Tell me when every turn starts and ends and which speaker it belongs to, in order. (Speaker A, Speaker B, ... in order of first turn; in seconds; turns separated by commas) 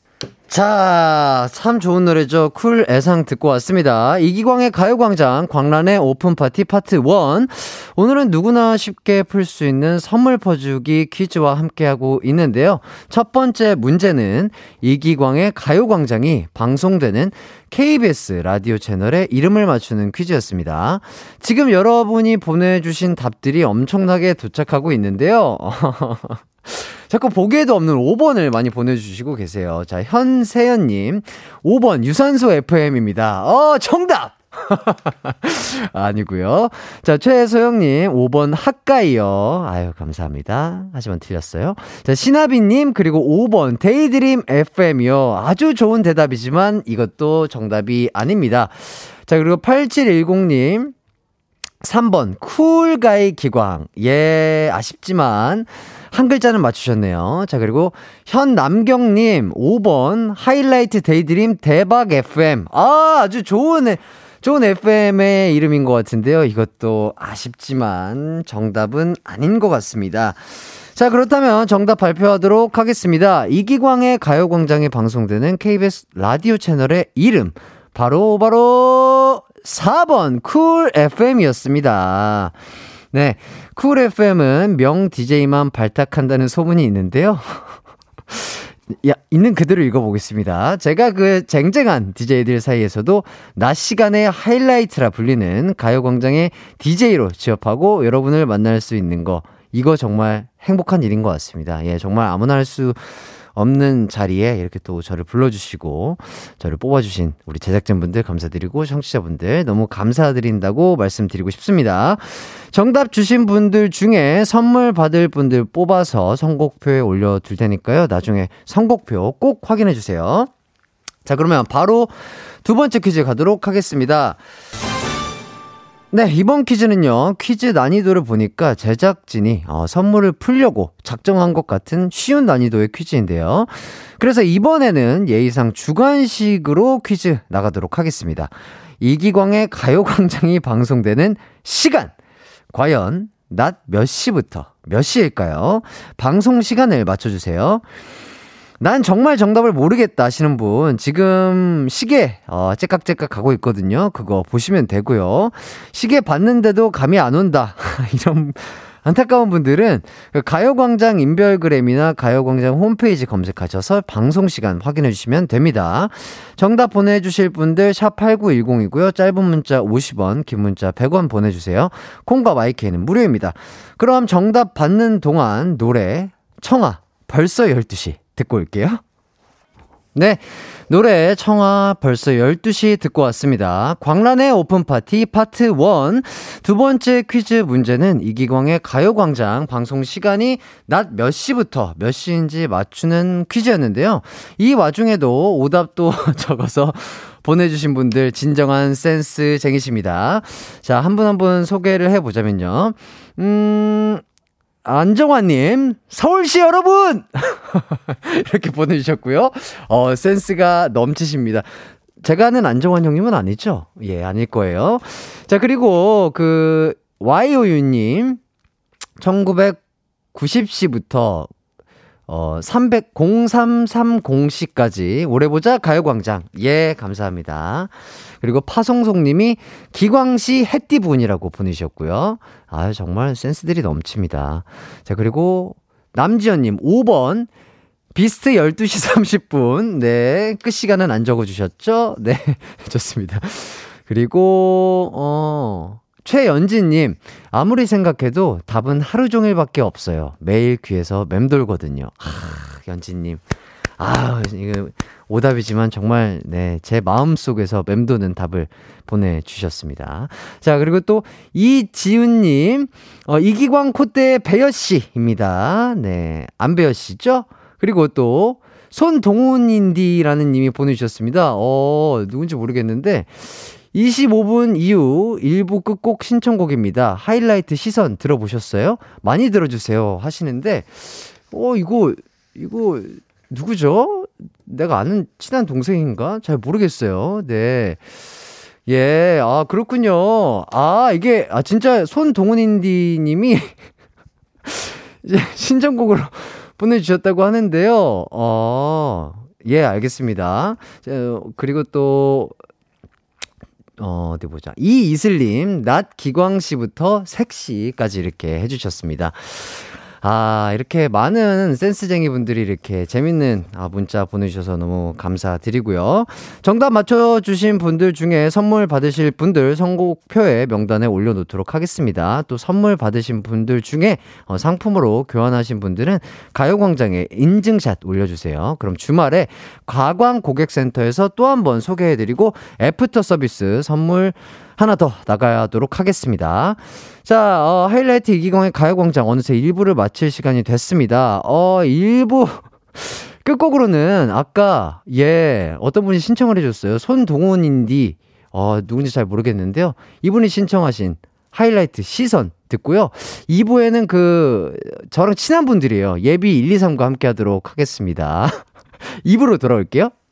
Speaker A: 0.5-50.9, Speaker A: 51.8-82.6, Speaker A: 83.1-87.8, Speaker A: 88.3-120.5, Speaker A: 121.3-124.4, Speaker A: 126.1-142.1, Speaker A: 142.7-147.8, Speaker A: 148.8-179.0, Speaker A: 180.2-204.2, Speaker A: 204.8-211.7, Speaker A: 212.2-218.4, Speaker A: 219.2-219.8, Speaker A: 220.3-221.5, Speaker A: 222.3-237.5, Speaker A: 238.1-253.4, Speaker A: 254.0-288.0, Speaker A: 288.9-293.8, Speaker A: 294.6-302.6, Speaker A: 304.0-358.6, Speaker A: 359.2-360.1